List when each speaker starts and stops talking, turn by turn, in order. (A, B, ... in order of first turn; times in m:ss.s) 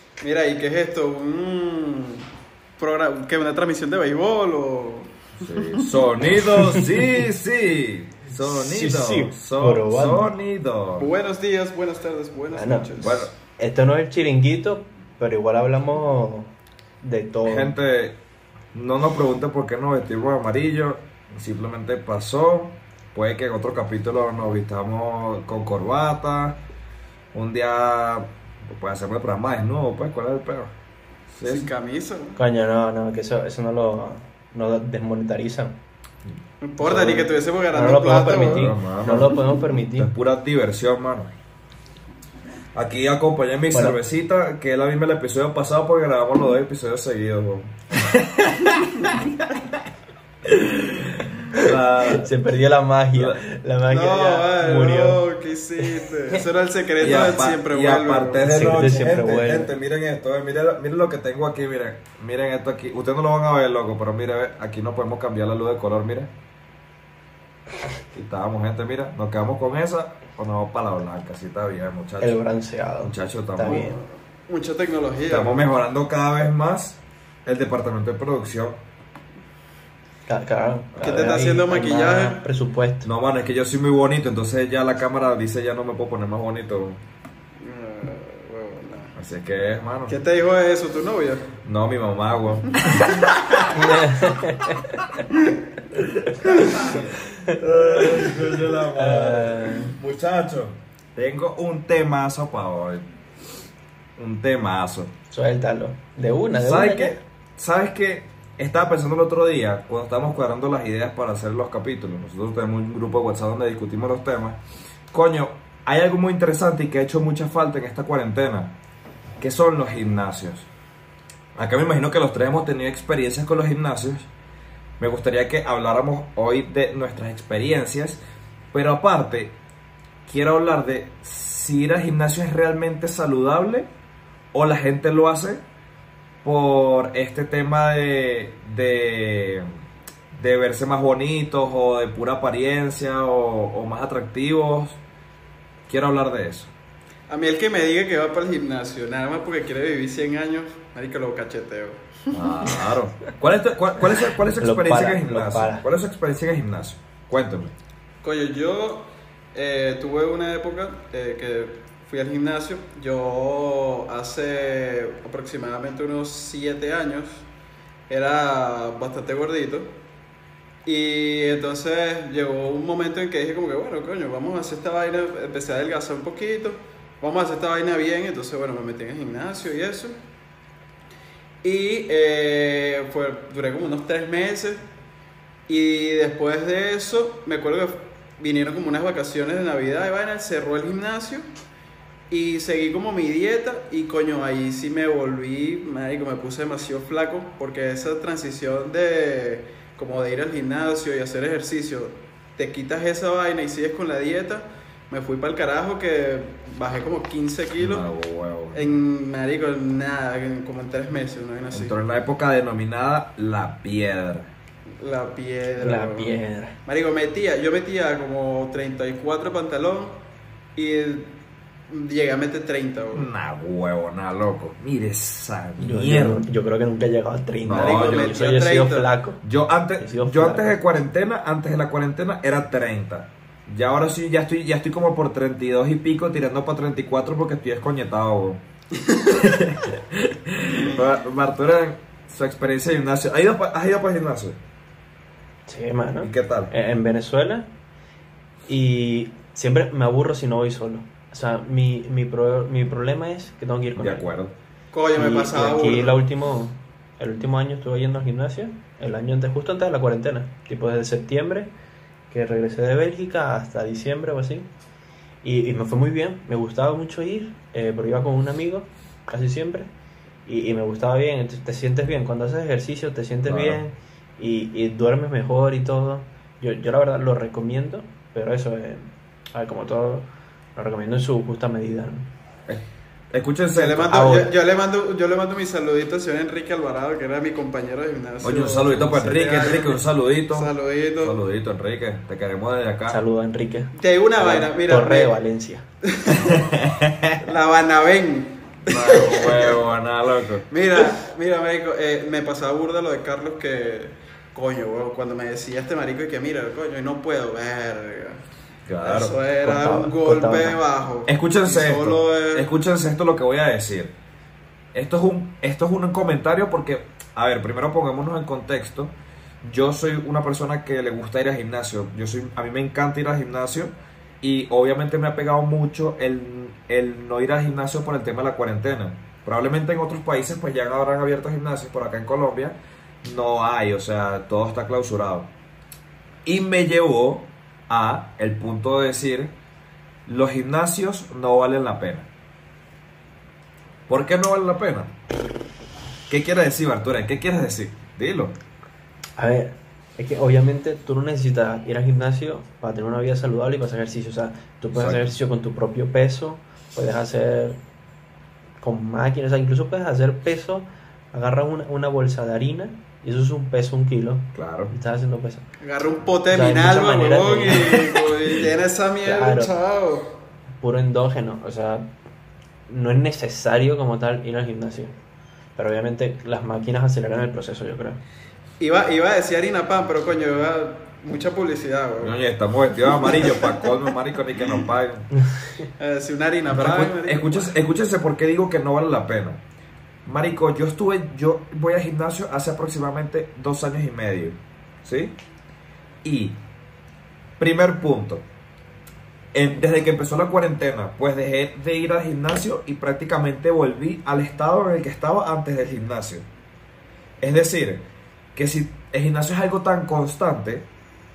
0:00.2-0:02.3 A
0:02.8-0:06.0 A
0:05.4-0:11.1 B
0:08.4-0:10.4 C
0:11.0-0:13.2 A
0:12.5-0:17.8 C
0:13.0-0:13.3 B
0:17.5-0:18.2 B
0:18.7-0:26.6 B
0:27.3-0:30.7 B
0:31.3-0:31.7 B
0:31.4-0:32.4 A
0:32.4-0:35.8 C
0:36.6-0:38.7 A
0:36.8-0:40.1 C
0:38.4-0:41.3 B
0:42.8-0:49.3 B
0:43.7-0:44.0 C
0:50.9-0:52.3 B
0:51.5-0:55.2 C
0:53.2-0:53.4 B
0:53.9-0:58.7 A
0:55.8-0:56.4 C
0:57.0-1:06.3 B
0:58.4-0:59.7 C
1:08.1-1:12.4 B
1:12.2-1:14.0 C
1:13.0-1:13.9 B
1:13.7-1:15.7 A
1:15.3-1:18.8 B
1:20.3-1:23.1 C
1:20.9-1:21.3 B
1:21.0-1:22.5 A
1:23.0-1:27.0 B
1:27.6-1:29.2 A
1:29.2-1:30.2 B
1:30.1-1:31.5 A
1:31.6-1:33.9 B
1:33.7-1:35.2 C
1:36.3-1:38.3 C
1:36.4-1:43.1 B
1:38.9-1:40.0 C
1:44.2-1:45.1 B
1:45.3-1:47.2 C
1:46.6-1:54.6 B
1:55.1-1:58.7 B
1:59.4-2:00.7 B
2:01.6-2:04.3 B
2:05.0-2:08.2 B
2:08.7-2:09.6 B
2:10.3-2:13.9 B
2:14.5-2:15.6 B
2:16.4-2:19.6 B
2:20.3-2:25.0 B
2:25.9-2:26.7 B
2:27.3-2:32.8 A
2:32.3-2:37.7 B
2:34.6-2:35.9 C
2:38.2-2:47.5 A
2:48.1-2:49.9 A
2:50.8-3:00.2 A
3:01.6-3:04.8 A
3:05.7-3:11.4 A
3:12.3-3:28.0 A
3:27.8-3:28.9 B
3:28.7-3:32.0 A
3:31.7-3:34.5 B
3:35.0-3:40.2 A
3:35.8-3:36.8 C
3:40.8-3:43.3 A
3:43.1-3:46.5 B
3:45.8-3:49.4 C
3:47.6-3:48.4 B
3:47.7-3:49.1 A
3:49.4-3:58.6 B
3:50.0-3:51.0 C
3:59.2-4:04.6 B
4:05.7-4:07.7 C
4:06.2-4:06.7 B
4:08.7-4:14.3 C
4:14.0-4:14.6 B
4:14.9-4:16.2 A
4:15.2-4:21.7 C
4:22.3-4:24.7 C
4:25.4-4:29.9 C
4:30.5-4:42.3 C
4:33.4-4:33.8 B
4:42.7-4:44.2 B
4:43.8-4:51.4 A
4:44.1-4:44.5 C
4:48.4-4:53.2 B
4:53.1-4:55.8 C
4:54.0-4:55.4 A
4:56.0-4:56.6 A
4:56.3-4:57.4 B
4:57.4-4:59.8 A
4:58.9-5:01.1 B
5:00.7-5:08.4 A
5:08.9-5:09.4 B
5:09.0-5:12.7 A
5:09.6-5:10.8 C
5:11.3-5:14.1 B
5:14.9-5:35.5 B
5:36.4-5:39.5 B
5:40.3-5:42.3 B
5:44.1-5:45.1 B
5:46.3-5:48.6 B
5:49.4-5:57.8 C
5:54.9-5:55.3 B
5:58.8-6:05.7 C
6:04.6-6:04.9 B
6:05.8-6:10.4 A
6:06.5-6:08.6 C
6:09.2-6:09.7 C
6:10.8-6:12.1 C
6:12.9-6:15.1 C
6:15.8-6:18.2 C
6:18.8-6:22.4 A
6:22.2-6:25.3 B
6:23.2-6:23.9 A
6:25.4-6:25.8 C
6:26.0-6:27.8 A
6:26.7-6:29.6 B
6:30.3-6:35.4 B
6:36.2-6:36.6 B
6:37.6-6:38.4 B
6:39.5-6:46.5 B
6:47.4-6:48.0 B
6:48.6-6:50.9 B